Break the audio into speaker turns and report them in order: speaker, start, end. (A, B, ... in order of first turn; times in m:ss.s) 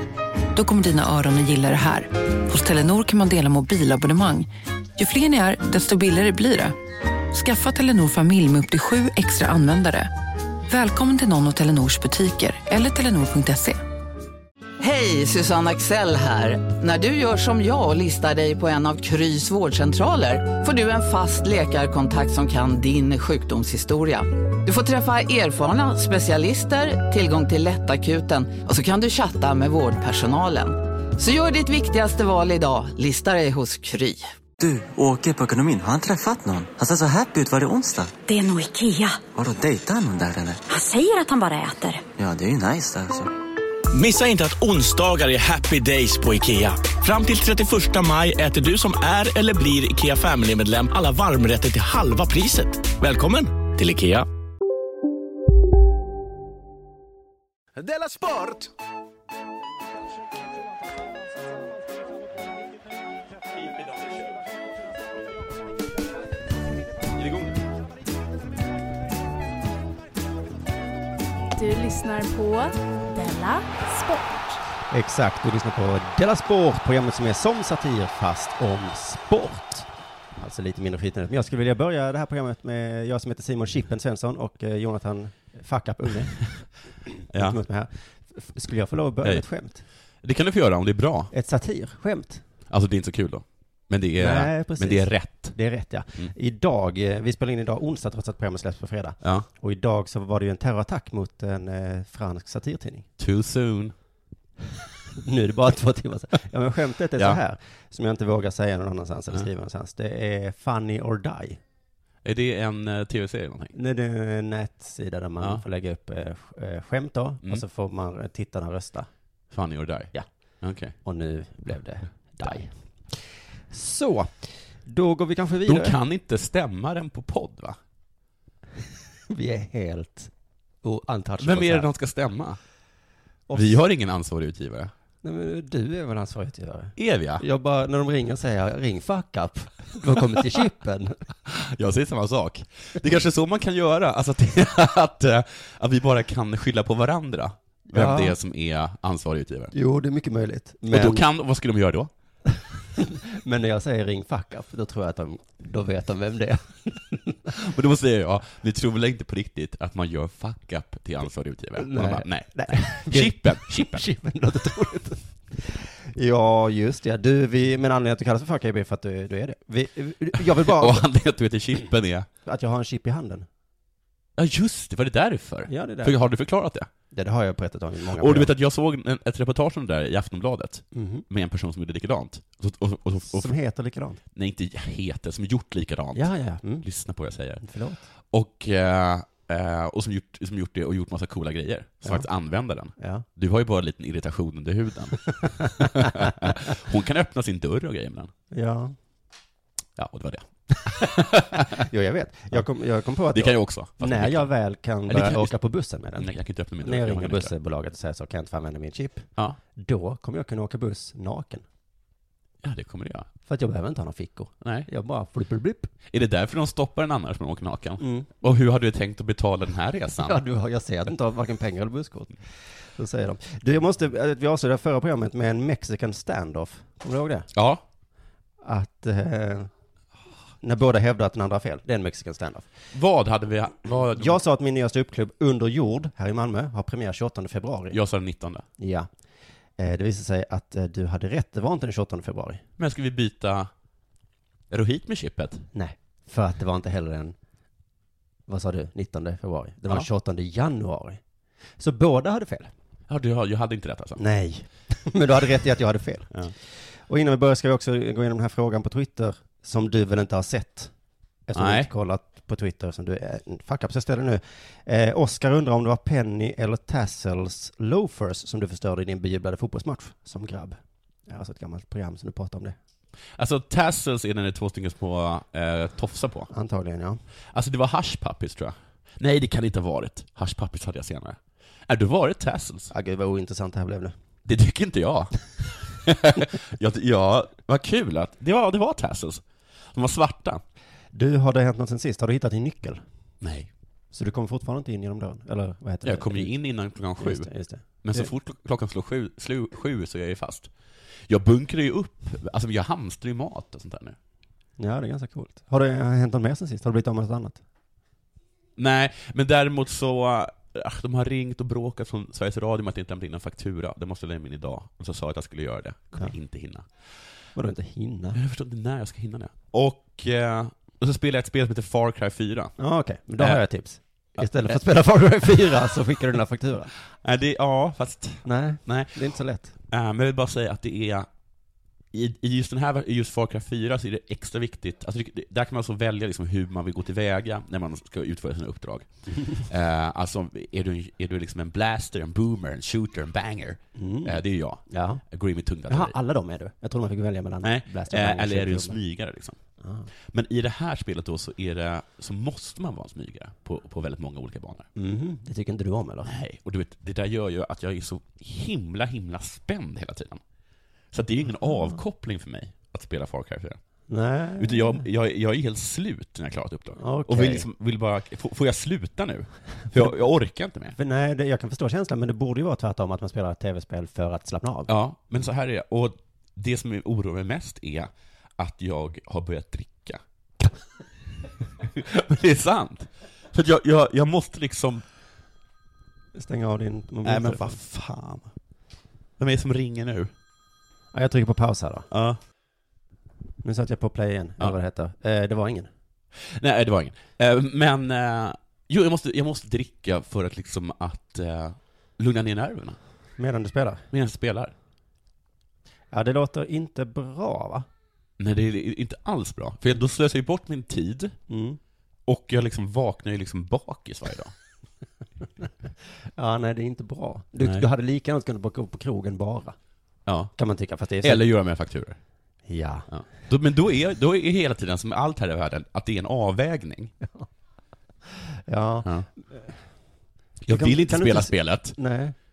0:00.5-0:06.8 A
0:07.3-0:10.1 A
0:10.7-0:13.8 A
0:14.8-0:34.3 B
0:34.6-0:38.1 C
0:38.2-0:39.2 D
0:39.3-0:40.6 C
0:40.7-0:42.0 D
0:42.2-0:43.3 C
0:43.9-0:54.2 E
0:57.8-0:58.6 E
1:03.6-1:04.4 F
1:07.1-1:07.6 F
1:11.5-1:14.6 G
1:14.9-1:19.9 H
1:20.4-1:26.4 H
1:27.2-1:29.8 H
1:27.3-1:27.6 F
1:30.2-1:31.3 F
1:31.3-1:32.4 H
1:32.7-1:35.6 F
1:34.2-1:43.1 H
1:39.2-1:39.5 F
1:43.2-1:43.9 F
1:45.2-1:51.6 H
1:52.2-1:53.7 F
1:53.7-1:59.1 H
1:59.5-2:00.9 F
2:01.0-2:06.0 H
2:05.6-2:07.8 F
2:09.3-2:10.3 H
2:10.8-2:11.9 H
2:11.4-2:12.6 F
2:13.5-2:13.8 H
2:13.5-2:14.9 F
2:15.2-2:21.2 H
2:17.0-2:17.4 F
2:21.4-2:29.7 F
2:27.9-2:28.4 H
2:29.7-2:31.2 H
2:30.9-2:32.1 F
2:33.0-2:37.5 H
2:37.5-2:44.0 F
2:41.8-2:51.0 H
2:50.4-2:52.3 F
2:52.4-2:53.5 H
2:54.4-2:56.9 F
2:55.7-2:56.2 H
2:57.1-2:58.5 H
2:58.2-3:03.5 F
3:00.9-3:01.2 H
3:03.3-3:04.2 H
3:04.3-3:07.6 F
3:06.1-3:06.8 H
3:07.6-3:08.1 H
3:08.3-3:18.3 F
3:13.0-3:13.2 H
3:18.5-3:19.0 H
3:20.0-3:21.7 F
3:21.5-3:26.3 H
3:23.3-3:24.5 F
3:25.1-3:25.5 F
3:26.2-3:27.5 F
3:26.8-3:31.6 H
3:32.6-3:33.3 F
3:33.4-3:35.9 H
3:34.6-3:34.9 F
3:36.1-3:40.4 F
3:38.0-3:38.3 H
3:40.2-3:42.4 H
3:43.0-3:47.5 H
3:47.5-3:47.8 F
3:48.6-3:49.7 H
3:50.6-3:52.7 H
3:52.9-3:54.4 F
3:54.1-3:58.0 H
3:57.9-3:58.6 F
3:58.8-3:59.1 H
3:59.8-4:02.6 H
4:02.8-4:03.7 F
4:04.7-4:05.7 F
4:05.7-4:07.4 H
4:08.5-4:11.2 H
4:11.8-4:12.7 H
4:13.1-4:14.2 F
4:14.2-4:16.3 H
4:17.1-4:20.9 H
4:21.5-4:32.8 H
4:21.5-4:21.9 F
4:33.4-4:36.5 F
4:36.5-4:37.2 H
4:37.5-4:42.9 F
4:42.9-4:44.1 H
4:44.4-4:49.4 F
4:49.9-4:50.6 F
4:51.1-4:53.0 H
4:53.4-4:53.7 F
4:54.1-4:56.5 H
4:56.0-4:57.5 F
4:57.2-4:58.3 H
4:58.0-5:00.7 F
5:01.3-5:04.2 F
5:04.8-5:07.6 H
5:08.8-5:16.9 F
5:17.6-5:18.4 H
5:18.3-5:22.7 F
5:22.8-5:26.9 H
5:24.4-5:24.8 F
5:27.2-5:29.2 F
5:28.4-5:29.7 H
5:29.9-5:31.3 F
5:32.1-5:46.2 F
5:44.0-5:45.2 H
5:45.9-5:49.0 H
5:47.6-5:49.6 F
5:49.8-5:50.1 H
5:50.3-5:54.9 F
5:55.0-5:56.3 H
5:56.2-6:00.4 F
6:01.1-6:03.8 F
6:04.1-6:05.0 H
6:04.6-6:11.0 F
6:07.0-6:07.7 H
6:10.9-6:14.9 H
6:14.9-6:20.2 F
6:21.8-6:25.0 F
6:26.3-6:27.8 H
6:27.2-6:28.5 F
6:29.4-6:30.3 F
6:31.1-6:32.1 H
6:32.1-6:32.4 F
6:33.6-6:35.9 H
6:36.4-6:43.0 F
6:43.4-6:44.0 H
6:44.1-6:44.7 F
6:46.1-6:47.8 H
6:48.4-6:51.4 F
6:51.5-6:51.8 H
6:52.3-6:54.5 F
6:56.4-6:59.7 H
7:00.2-7:00.5 F
7:00.5-7:01.4 H
7:01.2-7:02.2 F
7:02.7-7:03.1 H
7:03.1-7:07.1 F
7:08.3-7:09.7 H
7:10.6-7:12.0 F
7:10.7-7:12.3 H